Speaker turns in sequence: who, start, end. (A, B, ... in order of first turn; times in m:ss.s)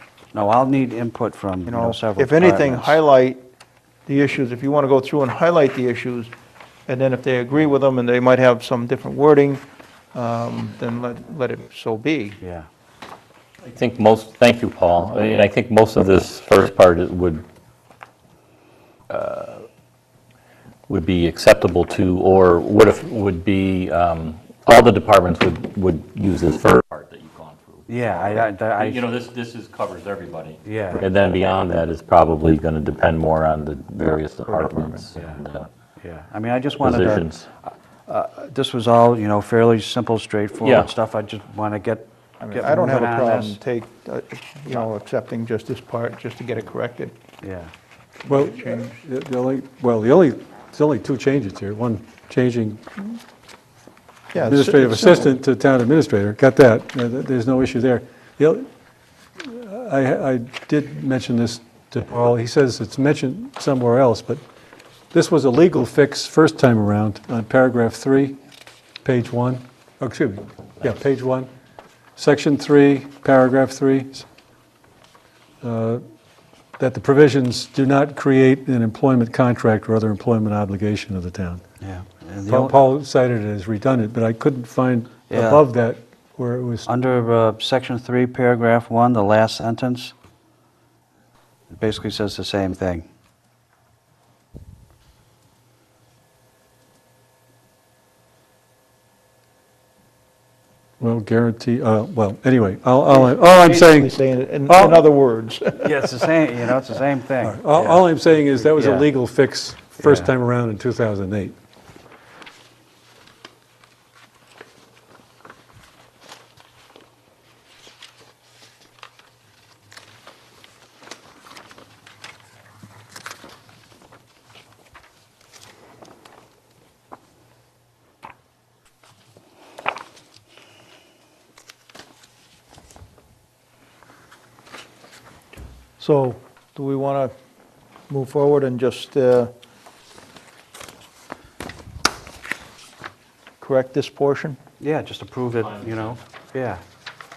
0:00.3-0:03.0 A
0:01.6-0:03.4 B
0:04.0-0:06.3 B
0:06.9-0:09.6 B
0:10.1-0:12.4 B
0:12.4-0:12.7 A
0:13.6-0:17.4 C
0:19.1-0:19.7 C
0:20.9-0:35.7 C
0:27.9-0:29.1 A
0:30.6-0:31.1 A
0:34.5-0:35.1 B
0:35.1-0:35.4 A
0:36.0-0:43.6 A
0:36.8-0:37.5 C
0:40.6-0:40.9 C
0:42.4-0:47.1 B
0:47.4-0:47.7 A
0:48.2-0:48.9 B
0:48.3-0:52.8 D
0:54.3-0:55.4 B
0:54.4-0:58.7 D
0:59.4-1:04.4 D
1:05.1-1:08.4 D
1:09.0-1:11.5 D
1:12.2-1:14.2 D
1:15.6-1:16.0 D
1:16.8-1:21.6 D
1:21.8-1:22.8 A
1:22.5-1:26.9 D
1:25.3-1:25.6 A
1:26.8-1:30.1 A
1:31.7-1:33.1 A
1:41.0-1:45.0 D
1:43.0-1:46.3 B
1:45.8-1:49.1 A
1:47.4-1:51.5 D
1:50.0-1:50.3 A
2:16.0-2:17.3 B
2:18.1-2:19.5 B
2:23.6-2:24.6 B
2:24.8-2:26.8 A
2:25.5-2:26.2 C